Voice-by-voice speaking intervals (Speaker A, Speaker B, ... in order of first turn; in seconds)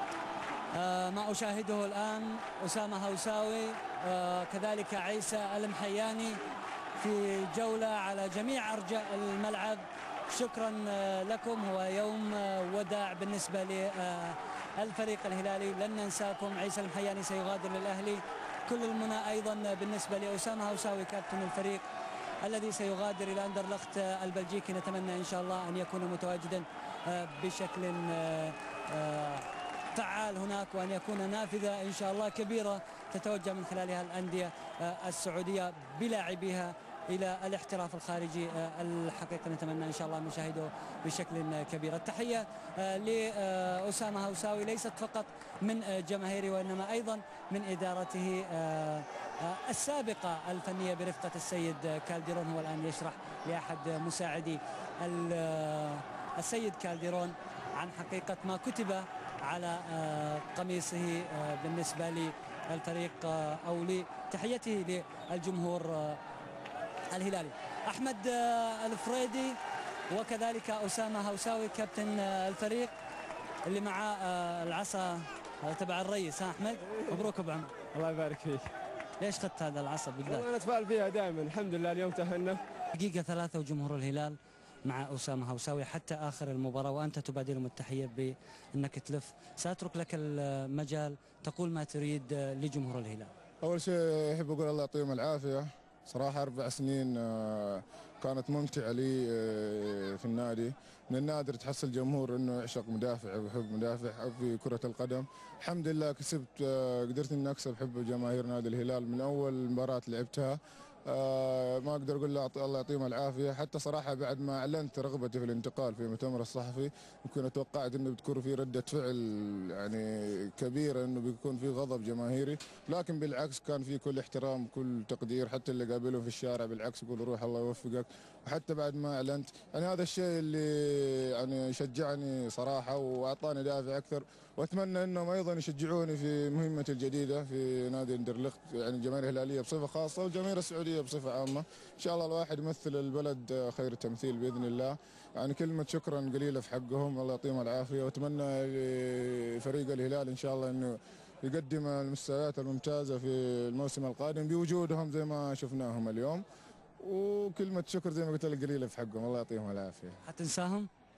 Speaker A: 0.7-6.4, 7.0-21.9, 22.4-66.2, 67.1-69.6, 70.1-72.9, 73.7-77.8, 79.2-80.5, 82.9-93.3, 160.2-160.9
Speaker B: 77.9-78.7, 80.3-82.6
Speaker C: 93.6-156.4, 157.0-160.2